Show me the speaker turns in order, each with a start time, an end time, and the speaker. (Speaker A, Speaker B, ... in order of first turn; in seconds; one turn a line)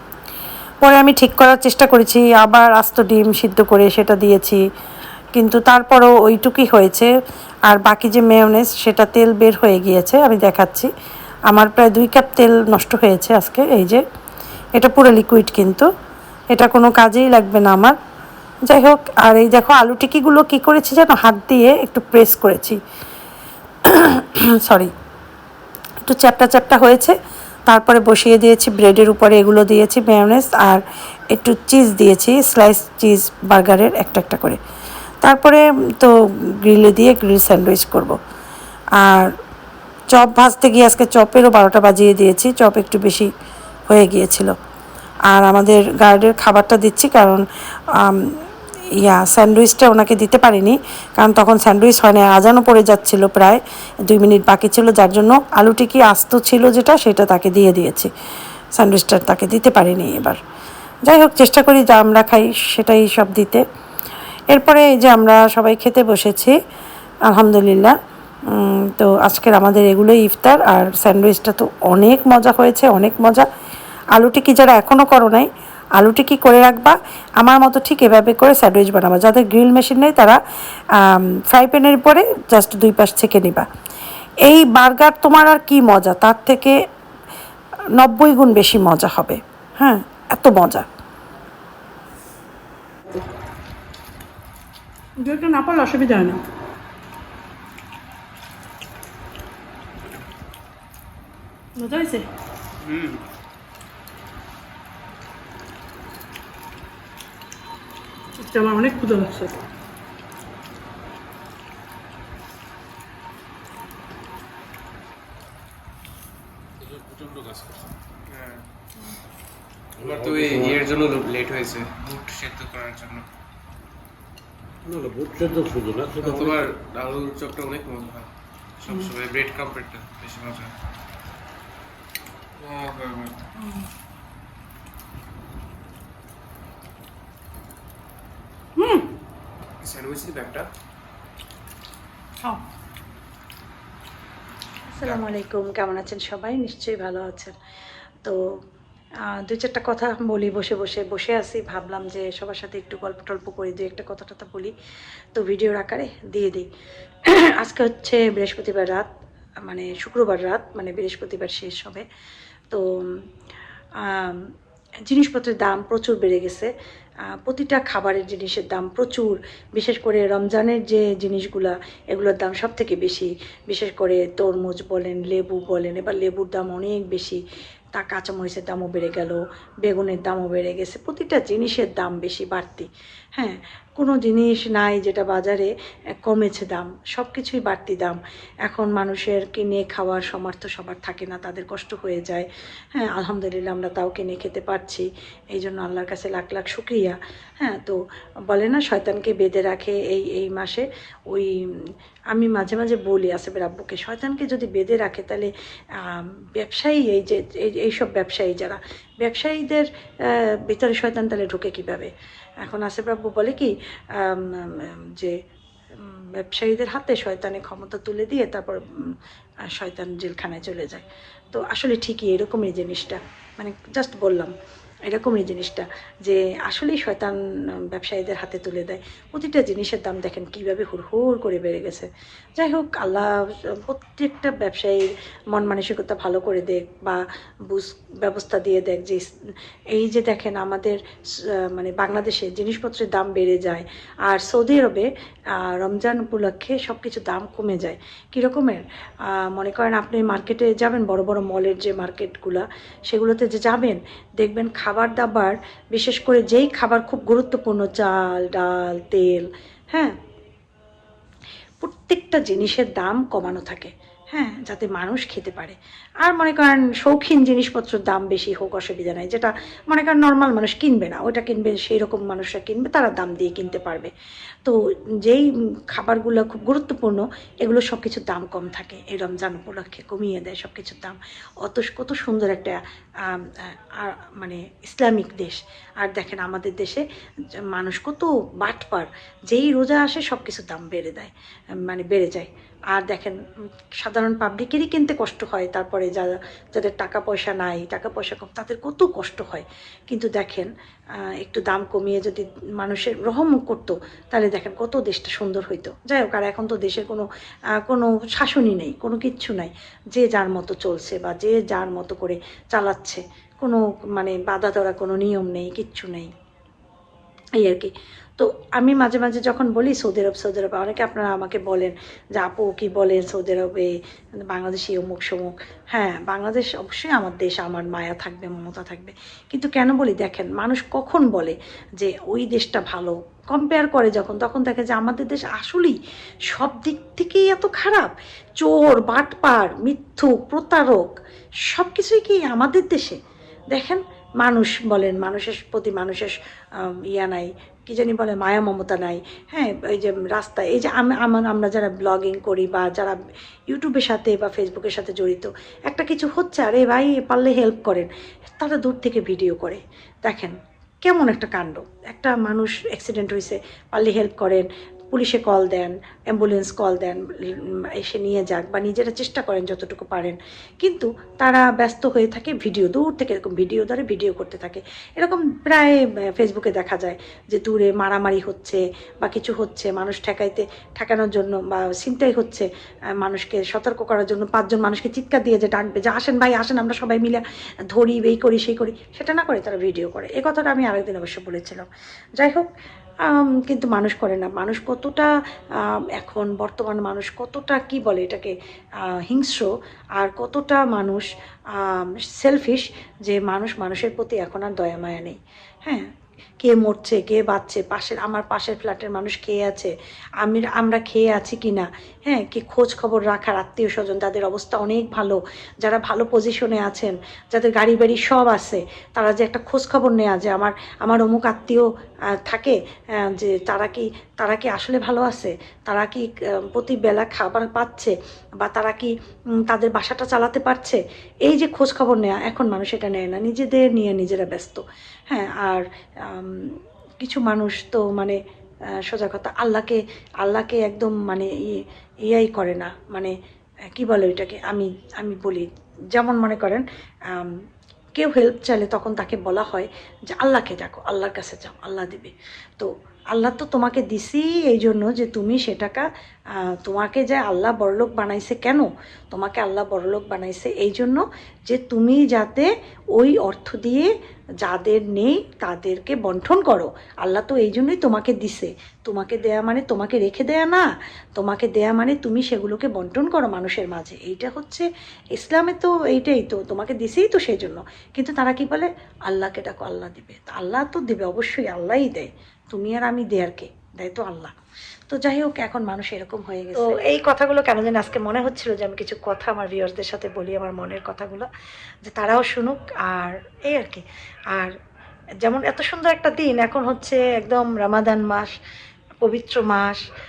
Speaker A: 0.8-4.6
Speaker B: 1.2-2.0
Speaker A: 5.4-7.1
Speaker A: 7.7-10.9
Speaker B: 9.3-10.0
Speaker A: 11.5-14.0
Speaker B: 11.6-12.3
Speaker A: 14.8-15.9
Speaker B: 16.6-16.9
Speaker A: 16.6-17.9
Speaker A: 18.7-22.8
Speaker A: 23.9-24.9
Speaker A: 26.1-27.1
Speaker A: 27.7-30.8
Speaker A: 31.3-34.6
Speaker A: 35.2-36.1
Speaker A: 36.6-38.2
Speaker A: 39.0-39.3
Speaker A: 40.1-43.3
Speaker A: 43.9-44.5
Speaker A: 45.3-47.5
Speaker A: 48.0-48.4
Speaker A: 49.0-58.1
Speaker A: 58.8-60.4
Speaker A: 61.1-63.6
Speaker A: 64.5-66.5
Speaker A: 67.3-67.9
Speaker A: 68.5-73.5
Speaker A: 74.2-75.5
Speaker A: 76.0-80.4
Speaker A: 81.0-83.6
Speaker A: 84.5-86.7
Speaker B: 84.8-85.2
Speaker A: 88.0-90.8
Speaker B: 89.8-90.2
Speaker C: 95.2-96.4
Speaker C: 101.8-102.3
Speaker D: 102.8-103.2
Speaker C: 108.4-109.5
Speaker E: 116.8-117.9
Speaker D: 118.3-118.6
Speaker E: 120.0-121.0
Speaker D: 120.0-123.2
Speaker E: 124.8-126.7
Speaker D: 126.2-128.3
Speaker D: 128.8-130.7
Speaker D: 132.6-133.4
Speaker C: 133.6-133.9
Speaker C: 138.8-139.1
Speaker D: 139.8-140.7
Speaker B: 144.9-147.6
Speaker B: 149.2-154.7
Speaker B: 155.3-156.7
Speaker B: 157.3-159.1
Speaker B: 159.7-162.0
Speaker B: 162.7-163.2
Speaker B: 164.0-164.5
Speaker B: 165.1-166.7
Speaker B: 167.3-177.4
Speaker B: 177.9-185.7
Speaker B: 186.2-201.5
Speaker B: 202.3-212.1
Speaker B: 212.6-215.3
Speaker B: 216.0-219.1
Speaker B: 219.8-224.5
Speaker B: 225.1-227.4
Speaker B: 227.9-239.3
Speaker B: 239.9-241.0
Speaker B: 241.5-260.1
Speaker B: 261.8-274.1
Speaker B: 274.6-287.0
Speaker B: 287.7-291.3
Speaker B: 291.9-293.4
Speaker B: 294.0-300.7
Speaker B: 301.4-307.3
Speaker B: 307.8-316.3
Speaker B: 317.6-323.9
Speaker B: 324.5-336.0
Speaker B: 336.5-341.1
Speaker B: 341.7-343.2
Speaker B: 343.7-353.2
Speaker B: 353.7-367.2
Speaker B: 368.0-382.7
Speaker B: 383.2-391.9
Speaker B: 392.4-392.7
Speaker B: 393.3-395.3
Speaker B: 396.1-398.5
Speaker B: 399.3-406.1
Speaker B: 406.6-421.9
Speaker B: 422.5-429.1
Speaker B: 429.7-438.4
Speaker B: 439.1-441.7
Speaker B: 442.3-443.3
Speaker B: 444.0-447.5
Speaker B: 448.2-464.1
Speaker B: 464.6-484.5
Speaker B: 485.1-491.5
Speaker B: 492.0-494.7
Speaker B: 495.4-498.6
Speaker B: 499.2-500.0